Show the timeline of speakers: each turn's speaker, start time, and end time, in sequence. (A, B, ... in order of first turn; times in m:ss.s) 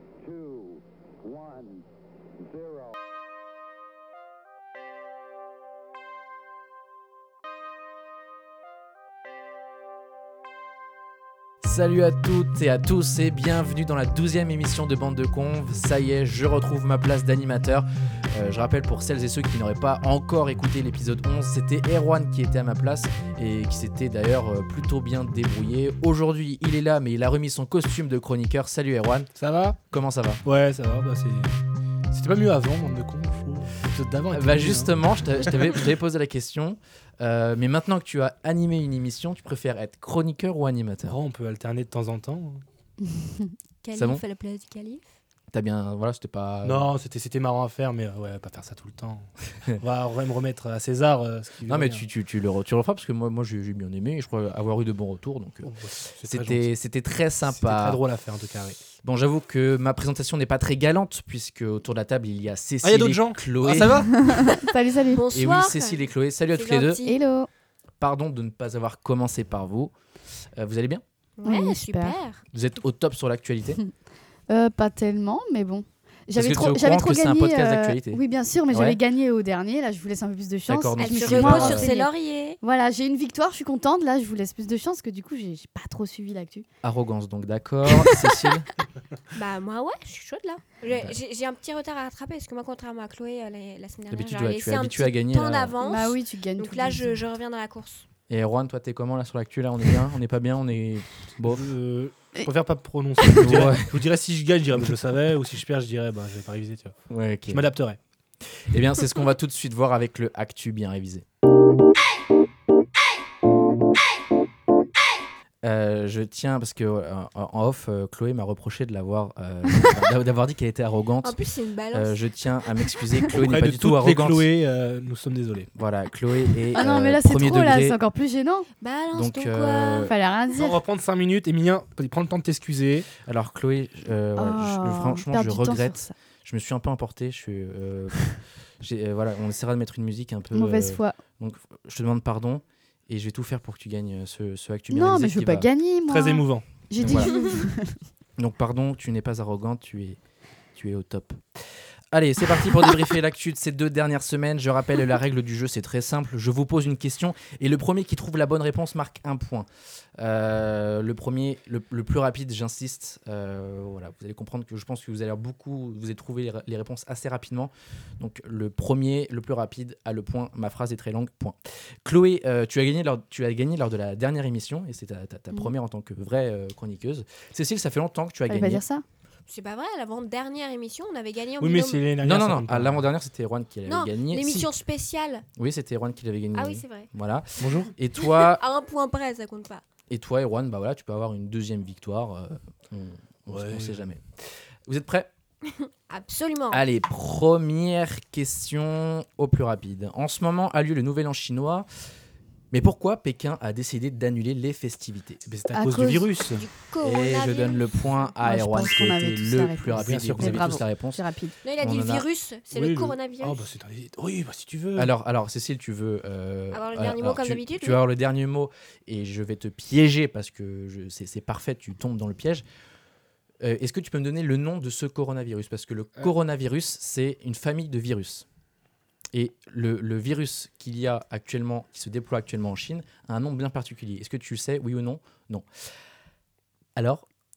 0:00.2-0:01.8 A
0:02.4-0:02.9 A
0:11.6-0:29.3 B
0:29.4-0:29.8 C
0:29.9-0:30.4 B
0:30.4-0:31.6 C
0:32.1-0:35.6 C
0:34.3-0:41.2 B
0:41.0-0:42.6 C
0:43.8-0:45.0 D
0:43.9-0:44.2 B
0:45.5-0:46.9 B
0:46.6-0:52.0 C
0:51.7-0:58.0 B
0:55.6-0:56.7 C
0:57.4-0:58.8 C
0:59.0-1:04.1 B
1:02.8-1:04.5 C
1:04.1-1:05.2 E
1:05.0-1:07.2 D
1:05.3-1:07.0 B
1:07.0-1:07.5 E
1:08.0-1:09.9 B
1:10.6-1:11.0 B
1:11.4-1:12.4 D
1:11.4-1:12.2 E
1:12.5-1:13.8 B
1:14.5-1:26.6 E
1:16.4-1:19.0 B
1:20.7-1:21.9 B
1:21.0-1:22.6 D
1:26.8-1:28.7 B
1:29.3-1:38.1 D
1:34.1-1:35.8 B
1:35.8-1:37.2 E
1:38.3-1:41.7 B
1:41.4-1:47.0 C
1:43.4-1:44.0 B
1:47.1-1:47.7 B
1:47.5-1:48.0 C
1:48.6-1:51.2 B
1:55.6-2:01.4 B
2:01.2-2:02.2 D
2:01.9-2:04.5 B
2:03.3-2:05.7 C
2:05.8-2:08.0 B
2:06.7-2:08.7 E
2:08.8-2:10.1 D
2:09.1-2:10.2 B
2:10.0-2:10.8 E
2:10.5-2:13.1 C
2:13.2-2:25.7 B
2:14.4-2:16.1 E
2:20.5-2:21.2 E
2:24.9-2:28.0 E
2:26.1-2:26.6 C
2:27.0-2:27.3 B
2:27.1-2:27.5 D
2:28.4-2:30.2 B
2:30.7-2:39.7 B
2:40.2-2:58.8 B
2:58.5-2:59.0 E
2:59.5-3:02.0 D
3:01.6-3:03.1 C
3:02.2-3:04.7 B
3:03.9-3:05.5 D
3:05.6-3:08.6 B
3:06.5-3:07.1 D
3:07.6-3:07.9 C
3:08.2-3:09.8 D
3:10.1-3:15.3 B
3:13.5-3:14.1 C
3:15.6-3:16.8 D
3:16.7-3:21.9 B
3:22.7-3:25.4 B
3:25.5-3:26.7 C
3:25.7-3:26.3 E
3:26.5-3:28.3 D
3:27.0-3:31.2 B
3:28.4-3:31.5 E
3:30.0-3:30.8 C
3:31.6-3:33.7 D
3:31.8-3:32.3 B
3:32.7-3:35.1 C
3:35.0-3:42.6 B
3:36.7-3:38.0 D
3:43.6-3:48.5 B
3:49.3-3:55.7 B
3:57.0-3:57.3 B